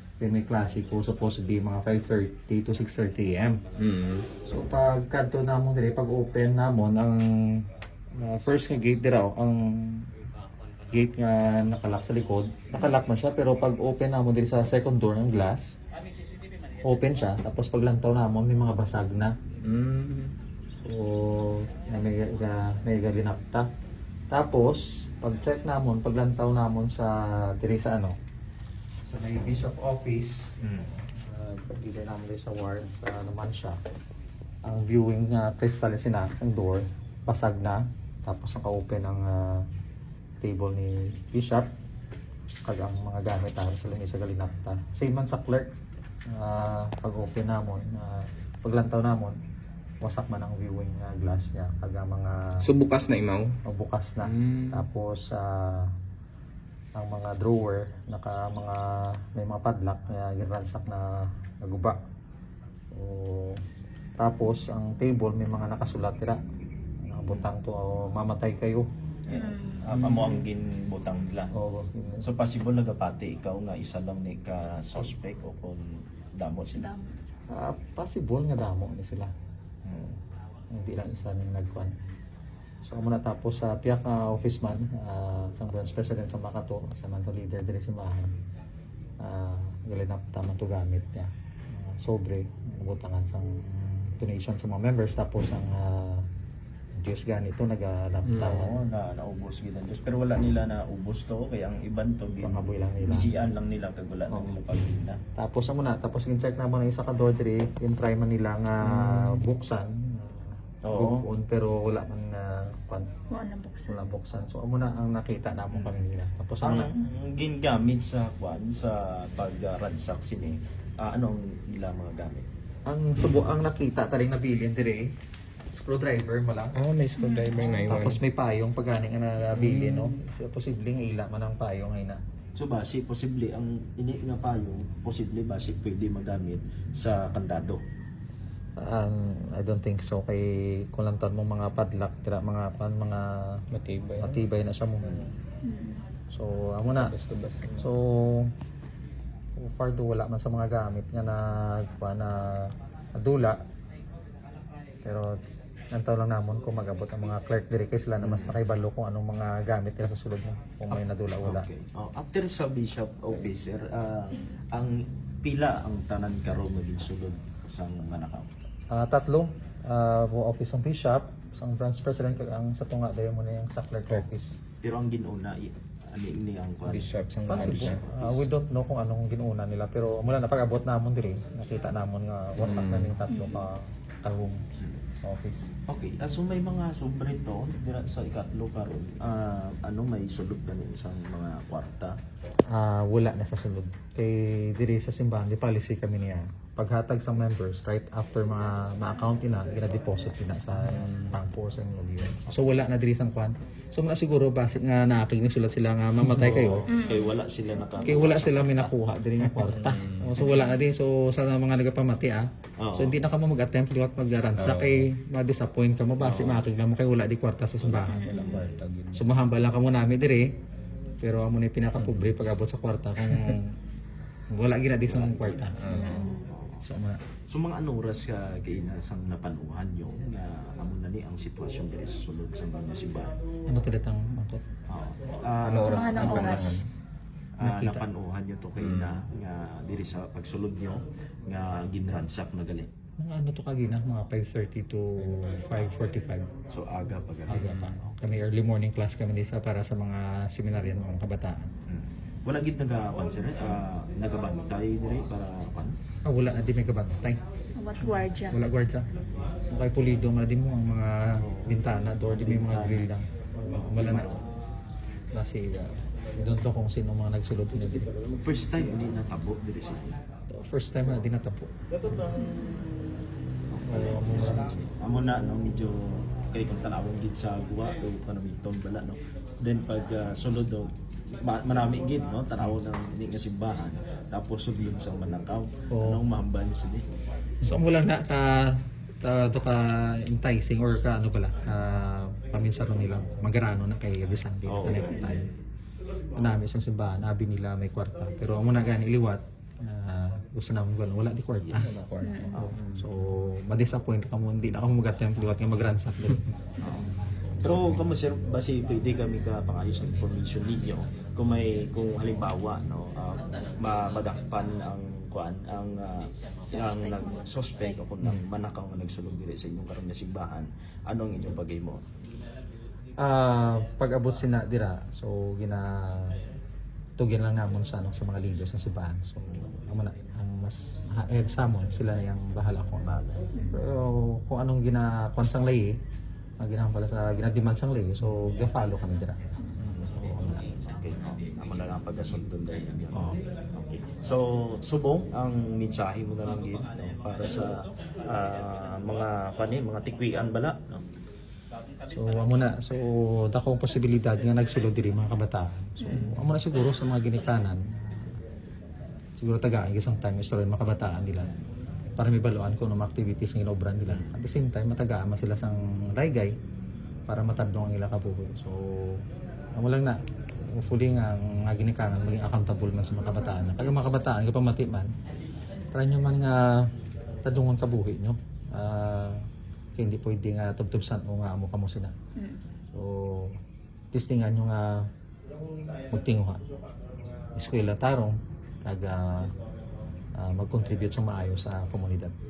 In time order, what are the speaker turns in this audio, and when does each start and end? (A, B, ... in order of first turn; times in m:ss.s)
0:00.2-0:03.6 A
0:03.8-0:04.3 B
0:04.4-0:10.1 A
0:10.9-0:15.8 A
0:16.8-0:19.4 A
0:19.6-0:20.4 B
0:20.8-0:23.7 A
0:24.3-0:28.2 A
0:29.1-0:33.8 A
0:30.6-0:30.9 C
0:34.6-0:39.7 A
0:40.4-0:41.7 A
0:42.6-0:45.7 A
0:46.3-0:49.4 A
0:50.0-0:52.7 A
0:52.6-0:53.6 B
0:53.6-0:55.9 A
0:54.2-0:54.8 B
0:57.0-1:02.0 A
1:02.9-1:03.6 A
1:04.2-1:06.4 A
1:07.0-1:08.9 A
1:09.3-1:11.5 C
1:09.3-1:09.9 D
1:10.0-1:10.4 A
1:11.5-1:12.3 A
1:12.2-1:16.9 C
1:16.8-1:17.2 D
1:17.5-1:19.3 A
1:19.8-1:20.2 C
1:20.7-1:22.0 A
1:22.8-1:28.3 A
1:29.2-1:36.3 A
1:37.0-1:38.7 A
1:38.3-1:38.6 B
1:38.4-1:45.2 C
1:42.4-1:43.3 A
1:45.4-1:53.1 A
1:48.9-1:49.4 B
1:50.8-1:51.3 C
1:53.3-1:54.1 D
1:53.9-1:56.9 A
1:55.7-1:56.0 C
1:56.6-2:02.5 C
2:02.9-2:05.1 A
2:05.7-2:06.8 A
2:06.8-2:08.2 B
2:07.2-2:08.0 D
2:07.7-2:12.2 A
2:09.6-2:10.1 B
2:12.6-2:17.8 C
2:18.8-2:23.6 A
2:23.7-2:24.4 B
2:24.2-2:25.2 A
2:25.6-2:26.0 D
2:26.3-2:27.2 A
2:27.0-2:27.9 B
2:27.7-2:28.5 A
2:29.6-2:33.6 A
2:35.0-2:35.4 A
2:35.9-2:41.7 A
2:38.2-2:38.6 C
2:40.9-2:48.5 C
2:48.9-2:54.6 A
2:54.8-2:58.5 C
2:56.9-2:58.0 B
2:57.5-3:04.7 A
3:02.6-3:03.1 B
3:03.3-3:03.6 D
3:05.2-3:05.7 A
3:05.9-3:12.2 C
3:12.7-3:26.9 A
3:20.8-3:21.4 B
3:26.4-3:28.9 C
3:26.9-3:27.3 D
3:28.0-3:38.5 A
3:29.6-3:30.4 B
3:32.8-3:33.2 C
3:34.6-3:35.1 B
3:36.2-3:36.7 C
3:37.8-3:38.7 C
3:38.1-3:38.7 D
3:38.3-3:39.3 B
3:39.1-3:40.5 A
3:41.2-3:43.8 A
3:42.0-3:42.3 B
3:43.3-3:43.6 B
3:44.5-3:45.8 A
3:45.0-3:45.7 C
3:45.8-3:46.4 B
3:45.9-3:46.5 D
3:46.3-3:46.8 C
3:46.8-3:47.2 A
3:47.5-3:53.4 C
3:53.7-3:54.6 A
3:54.9-3:56.8 C
3:55.6-3:56.9 B
3:55.9-3:56.8 D
3:57.6-4:02.9 C
3:57.6-3:58.0 A
3:58.8-3:59.2 B
4:03.2-4:06.5 A
4:06.7-4:07.7 C
4:07.5-4:11.7 A
4:07.5-4:08.0 B
4:11.9-4:15.9 C
4:16.2-4:17.4 A
4:17.8-4:18.6 D
4:18.0-4:19.1 A
4:19.7-4:24.4 A
4:21.4-4:23.1 C
4:23.7-4:24.4 C
4:25.3-4:28.1 A
4:28.3-4:30.2 C
4:30.5-4:32.4 A
4:32.4-4:32.9 D
4:33.7-4:47.1 C
4:33.8-4:34.8 A
4:45.9-4:46.2 A
4:47.6-4:55.5 A
4:54.7-4:55.4 C
4:55.0-4:55.4 D
4:56.3-5:02.0 A
5:01.6-5:02.0 C
5:01.8-5:03.1 B
5:02.2-5:02.6 D
5:02.5-5:07.0 A
5:06.8-5:22.0 C
5:07.6-5:08.0 A
5:16.7-5:18.0 D
5:23.2-5:26.4 A
5:27.2-5:36.0 A
5:33.1-5:33.4 C
5:33.5-5:33.8 D
5:36.6-5:40.7 A
5:39.8-5:51.0 C
5:43.1-5:43.4 A
5:52.1-5:58.3 A
5:56.0-5:56.3 D
5:59.4-6:01.5 A
6:02.2-6:06.5 A
6:04.1-6:04.4 C
6:07.3-6:09.2 A
6:09.8-6:15.1 A
6:15.9-6:16.9 A
6:17.4-6:19.4 A
6:20.0-6:22.2 A
6:22.4-6:22.6 D
6:22.9-6:23.6 A
6:24.1-6:25.1 A
6:26.1-6:26.6 A
6:27.6-6:29.5 A
6:30.4-6:32.4 A